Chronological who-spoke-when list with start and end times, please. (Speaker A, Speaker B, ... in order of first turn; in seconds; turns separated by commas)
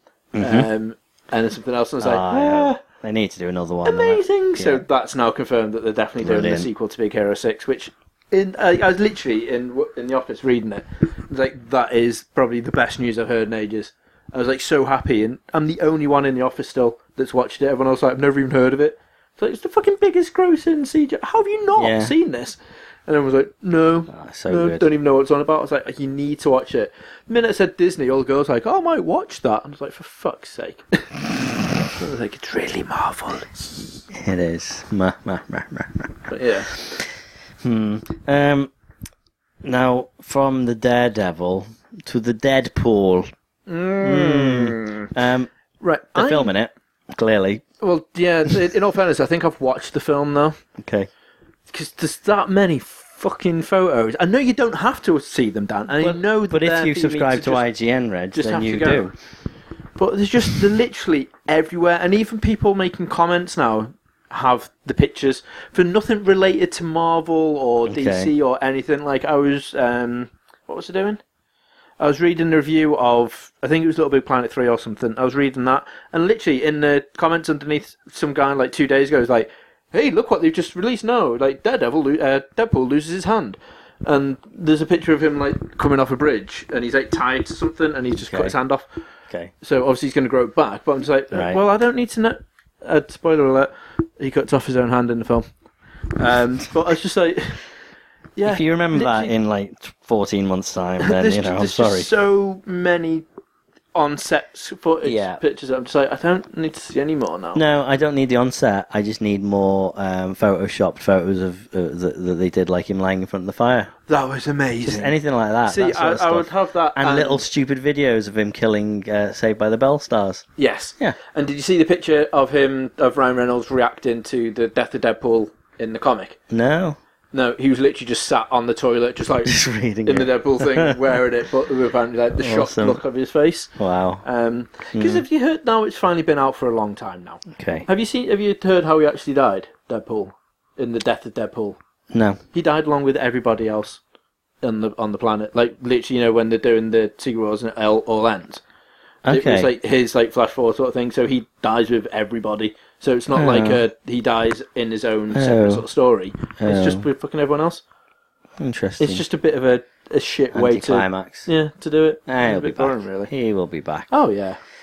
Speaker A: 0.3-0.7, Speaker B: 0.4-2.8, Speaker A: 2.0-4.8, Speaker B: 3.8-34.0, Speaker A: 6.2-6.7, Speaker A: 21.8-22.1, Speaker A: 24.1-24.8, Speaker A: 34.1-37.1, Speaker B: 36.3-36.7, Speaker A: 37.6-38.7, Speaker A: 39.6-43.3, Speaker B: 43.7-45.1, Speaker A: 44.0-45.5, Speaker B: 45.8-46.5, Speaker A: 46.1-47.6, Speaker B: 47.8-50.6, Speaker A: 50.8-51.1, Speaker B: 51.7-57.6, Speaker A: 56.0-59.1, Speaker B: 58.3-59.1, Speaker B: 60.0-71.2, Speaker A: 67.9-68.3, Speaker B: 72.0-88.9, Speaker A: 88.3-88.5, Speaker B: 89.6-95.5, Speaker A: 91.3-91.6, Speaker B: 96.2-97.6, Speaker B: 98.3-99.3, Speaker A: 98.5-102.1, Speaker B: 101.0-103.2, Speaker B: 103.9-107.6, Speaker A: 105.0-105.4, Speaker A: 107.5-113.9, Speaker B: 114.1-115.1, Speaker A: 114.8-120.4, Speaker B: 115.7-117.4, Speaker B: 120.6-126.4, Speaker A: 126.5-127.0, Speaker B: 127.3-141.8, Speaker A: 129.4-131.0, Speaker A: 132.4-133.0, Speaker A: 133.8-134.2, Speaker A: 134.9-135.2, Speaker A: 137.5-137.9, Speaker A: 142.1-142.4, Speaker B: 142.5-144.0, Speaker B: 144.6-148.6, Speaker A: 149.2-149.7, Speaker B: 149.3-157.8, Speaker A: 153.3-153.8, Speaker A: 155.3-155.8, Speaker A: 156.6-157.0, Speaker A: 158.6-159.2, Speaker B: 159.0-163.3, Speaker A: 160.5-161.5, Speaker A: 162.3-164.1, Speaker B: 164.1-164.6